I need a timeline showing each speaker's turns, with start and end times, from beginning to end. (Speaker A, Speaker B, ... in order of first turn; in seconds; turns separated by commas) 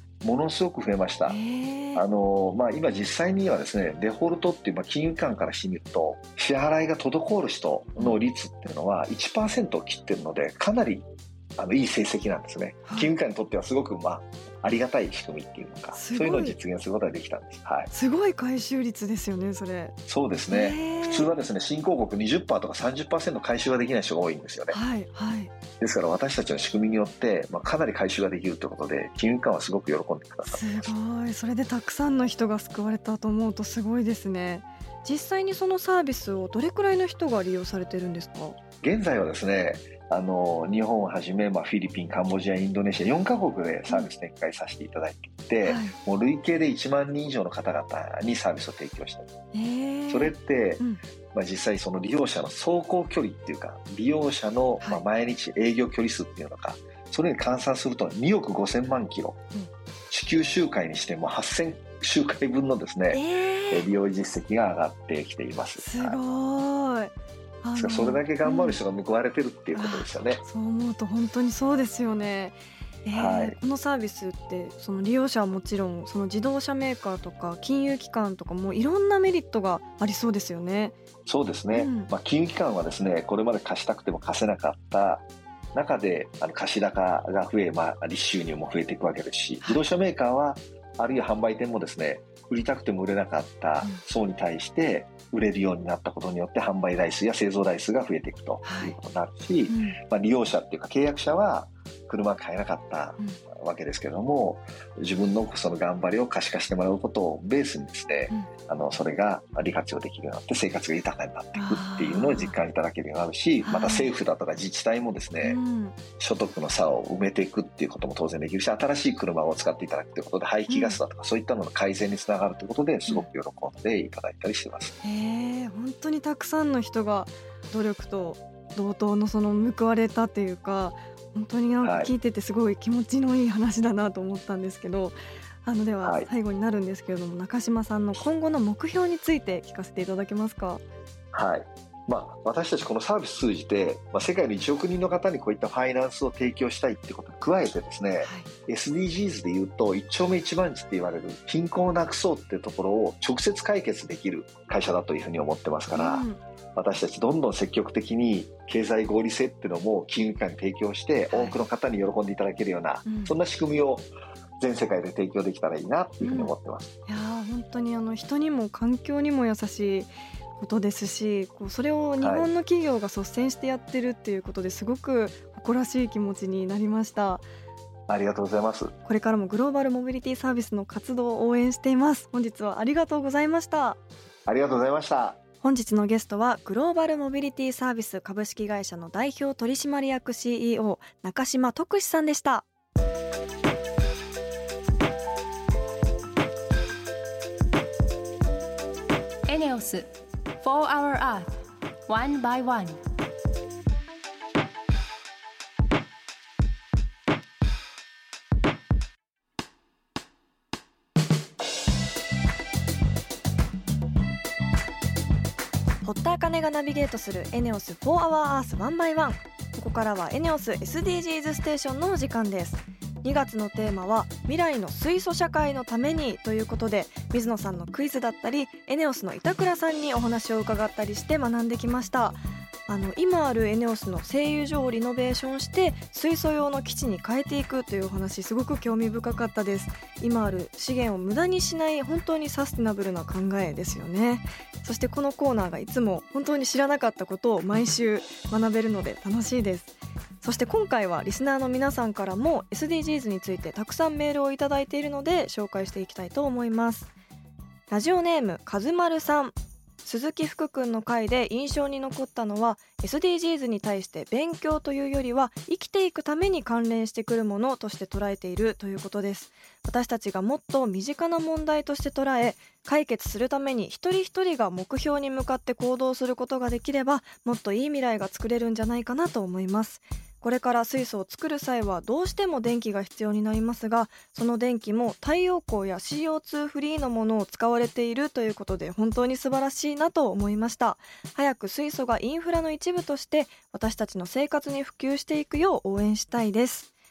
Speaker A: 0.2-1.4, Speaker B: 1.3-2.0, Speaker A: 1.9-17.9, Speaker B: 12.9-13.1, Speaker B: 15.9-16.6, Speaker B: 17.9-19.9, Speaker A: 20.1-24.8, Speaker B: 20.5-21.3, Speaker B: 24.7-25.5, Speaker A: 25.8-30.9, Speaker B: 30.5-38.6, Speaker A: 38.8-49.3, Speaker B: 45.6-46.0, Speaker B: 49.5-51.0, Speaker A: 50.1-59.4, Speaker A: 60.1-66.2, Speaker B: 63.1-63.9, Speaker B: 65.8-68.8, Speaker A: 67.8-70.4, Speaker B: 69.7-81.0, Speaker A: 73.1-73.6, Speaker A: 81.3-115.6, Speaker B: 81.7-82.1, Speaker B: 98.6-99.0, Speaker B: 99.7-100.0, Speaker B: 111.5-112.6, Speaker B: 113.7-114.1, Speaker B: 115.4-116.0, Speaker A: 116.2-124.9, Speaker B: 120.7-121.0, Speaker B: 125.0-140.8, Speaker A: 131.8-132.1, Speaker A: 136.0-136.3, Speaker A: 141.3-164.1, Speaker B: 148.2-148.5, Speaker B: 155.9-156.4, Speaker B: 161.3-161.6, Speaker B: 163.1-163.3, Speaker A: 164.6-166.9, Speaker B: 166.2-166.5, Speaker B: 167.1-177.5, Speaker A: 172.2-172.5, Speaker A: 178.1-178.9, Speaker B: 179.0-184.0, Speaker A: 184.5-185.4, Speaker B: 185.6-192.7, Speaker C: 199.5-200.1, Speaker C: 200.6-203.0, Speaker B: 216.0-257.1, Speaker B: 257.9-296.9